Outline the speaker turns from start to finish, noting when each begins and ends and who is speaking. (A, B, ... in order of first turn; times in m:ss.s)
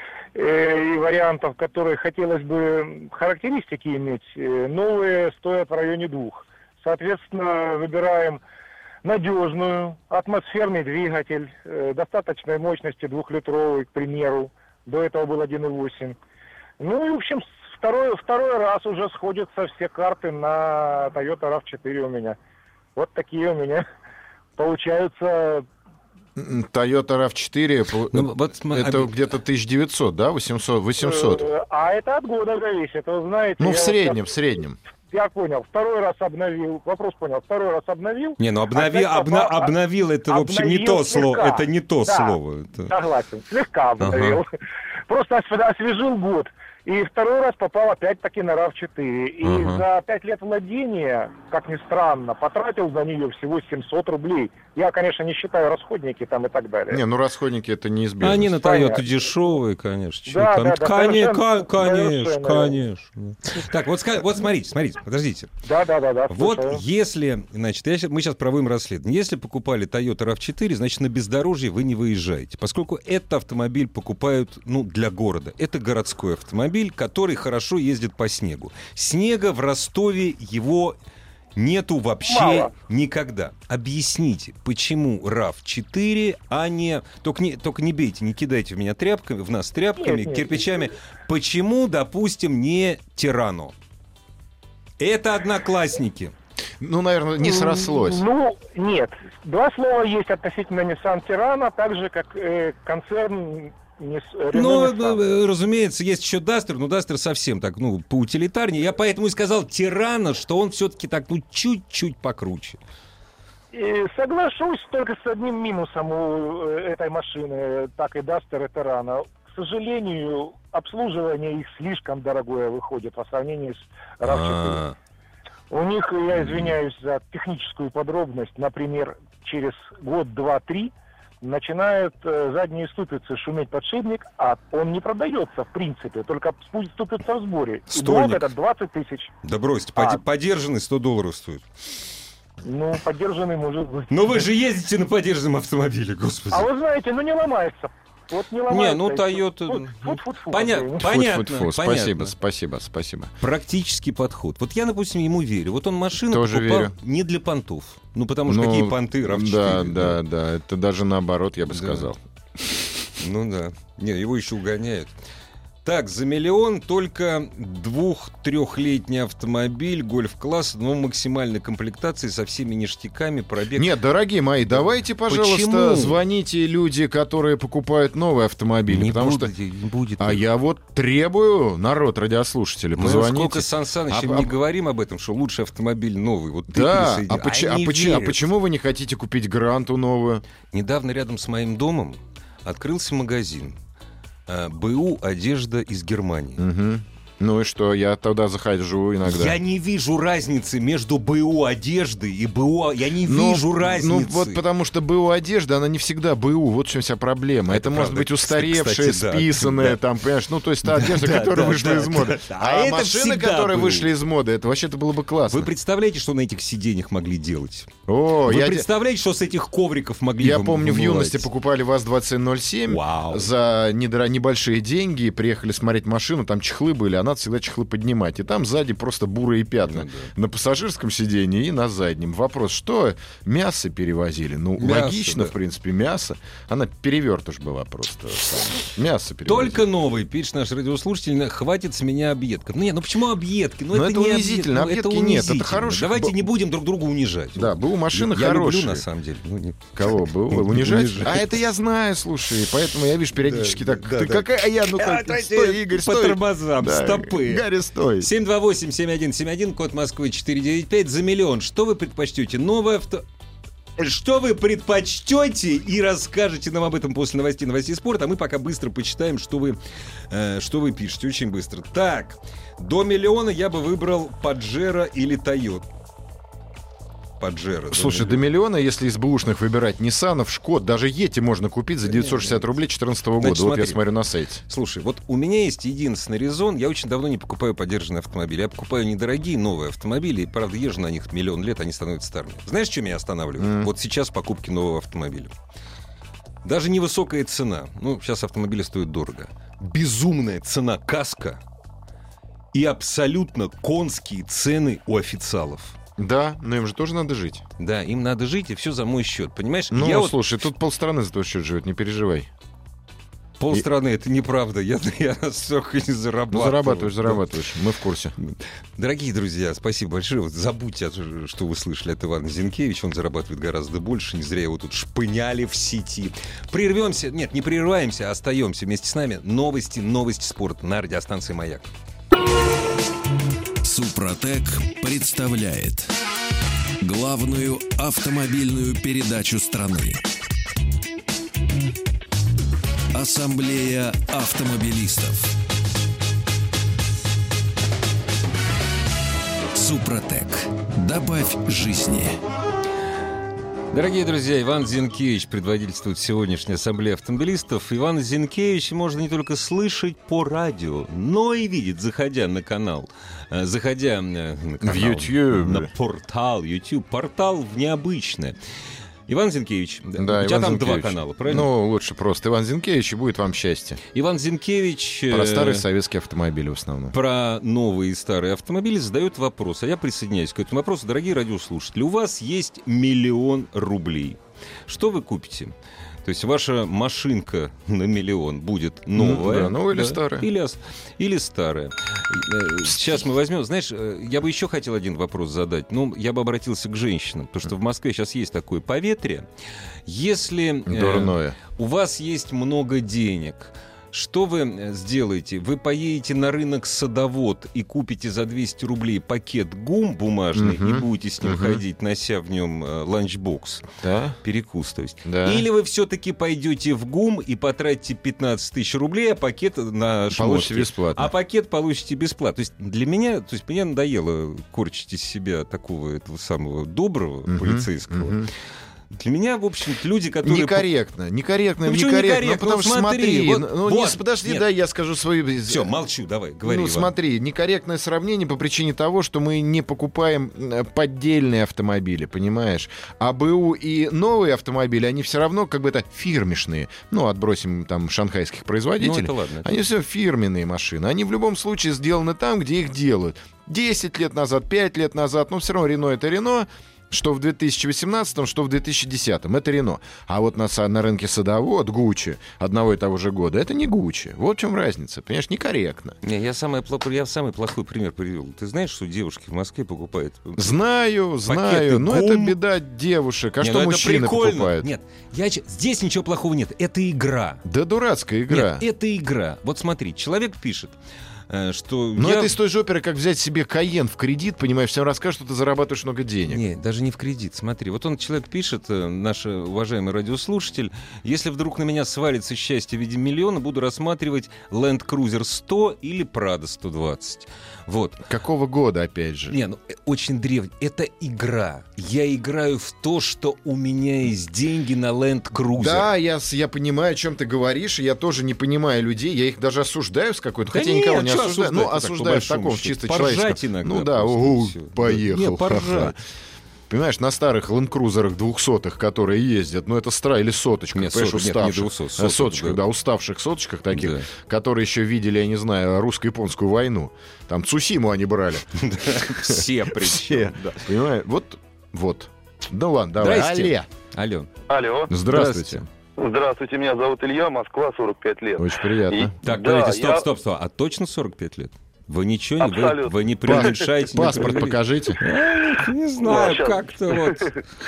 0:00.3-0:08.4 A
0:09.0-0:16.2 A
0:16.8-0:22.4 A
0:23.0-0:23.8 A
0:24.6-0:25.6 A
0:26.4-0:31.4 B
0:28.1-0:29.1 C
0:31.0-0:34.2 A
0:33.6-0:34.8 B
0:35.1-0:39.7 A
0:38.4-0:42.9 C
0:40.3-0:42.4 A
0:42.9-0:44.5 A
0:44.0-0:44.4 C
0:45.1-0:57.0 A
0:49.4-0:49.8 C
0:56.9-0:58.6 B
0:58.2-1:05.5 C
0:58.6-0:59.1 A
1:00.3-1:02.7 A
1:05.6-1:06.8 A
1:06.3-1:21.0 C
1:21.6-1:33.7 C
1:22.2-1:22.7 A
1:30.0-1:30.6 A
1:35.0-1:36.3 C
1:36.8-1:38.2 B
1:37.4-1:45.2 A
1:44.5-1:52.8 C
1:53.7-2:04.8 A
2:04.2-2:05.0 C
2:05.7-2:19.3 A
2:06.3-2:06.8 C
2:17.9-2:18.5 C
2:19.4-2:21.6 C
2:20.0-2:20.2 A
2:22.6-2:24.4 A
2:24.1-2:26.7 C
2:26.5-2:31.0 A
2:28.7-2:32.3 C
2:31.0-2:33.3 B
2:33.4-2:40.2 C
2:36.2-2:36.9 B
2:38.5-2:42.2 B
2:41.7-2:42.1 C
2:43.2-2:45.1 C
2:45.8-2:54.0 C
2:53.8-2:59.5 B
2:55.3-2:56.2 C
2:58.9-3:00.4 C
3:00.2-3:04.5 B
3:03.0-3:08.4 C
3:06.7-3:10.4 B
3:10.7-3:13.8 C
3:14.5-3:16.6 C
3:16.6-3:19.6 B
3:19.2-3:24.6 C
3:23.2-3:35.7 B
3:27.7-3:30.0 C
3:30.8-3:34.1 C
3:35.5-3:37.9 C
3:38.1-3:38.9 B
3:38.4-3:41.5 C
3:40.4-3:59.8 B
3:42.9-3:43.5 C
3:49.8-3:50.3 C
3:54.8-3:55.5 C
3:59.4-4:11.5 C
4:03.9-4:06.4 B
4:07.5-4:09.0 B
4:10.0-4:18.3 B
4:13.3-4:17.6 C
4:18.2-4:23.2 C
4:24.0-4:35.9 C
4:37.4-4:38.4 C
4:37.9-4:44.6 B
4:42.1-4:42.6 C
4:43.4-4:44.0 C
4:44.7-4:55.5 C
4:53.6-4:53.9 B
4:56.6-5:01.6 C
5:02.7-5:06.0 C
5:06.2-5:07.6 B
5:07.8-5:10.4 C
5:09.9-5:12.5 B
5:13.6-5:17.4 C
5:16.5-5:18.3 B
5:18.4-5:31.9 C
5:33.8-5:36.1 D
5:37.0-5:40.2 D
5:43.1-5:45.5 D
5:49.8-5:52.4 D
5:53.9-6:08.6 C
6:04.8-6:05.9 B
6:09.3-6:11.7 C
6:10.2-6:14.0 B
6:14.1-6:15.8 C
6:15.3-6:17.1 B
6:17.1-6:25.7 C
6:26.2-6:39.5 C
6:29.1-6:30.5 B
6:40.0-6:53.8 C
6:40.9-6:41.6 B
6:50.5-6:51.8 B
6:54.0-6:54.4 B
6:54.4-7:08.5 C
6:55.2-6:55.6 B
7:00.3-7:01.3 B
7:07.5-7:08.5 B
7:09.1-7:10.9 C
7:10.4-7:15.9 B
7:11.8-7:14.6 C
7:15.7-7:17.1 C
7:16.6-7:46.2 B
7:29.0-7:29.7 C
7:46.2-7:50.8 C
7:50.6-7:54.9 B
7:51.5-7:52.6 C
7:53.6-7:57.6 C
7:57.6-7:58.8 B
7:58.5-8:01.0 C
8:01.5-8:02.6 C
8:02.2-8:06.6 B
8:06.5-8:18.2 C
8:18.2-8:19.6 B
8:19.5-8:26.1 C
8:25.8-8:36.2 B
8:30.7-8:36.1 C
8:36.9-8:53.9 B
8:41.0-8:42.8 C
8:43.9-8:44.3 C
8:48.8-8:50.8 C
8:53.2-8:54.5 C
8:54.7-8:55.1 E
8:55.1-8:55.8 B
8:55.2-8:55.9 C
8:56.2-9:00.2 E
8:58.6-8:59.3 B
8:59.4-9:07.5 C
9:02.6-9:03.7 E
9:03.4-9:05.2 B
9:06.2-9:07.5 E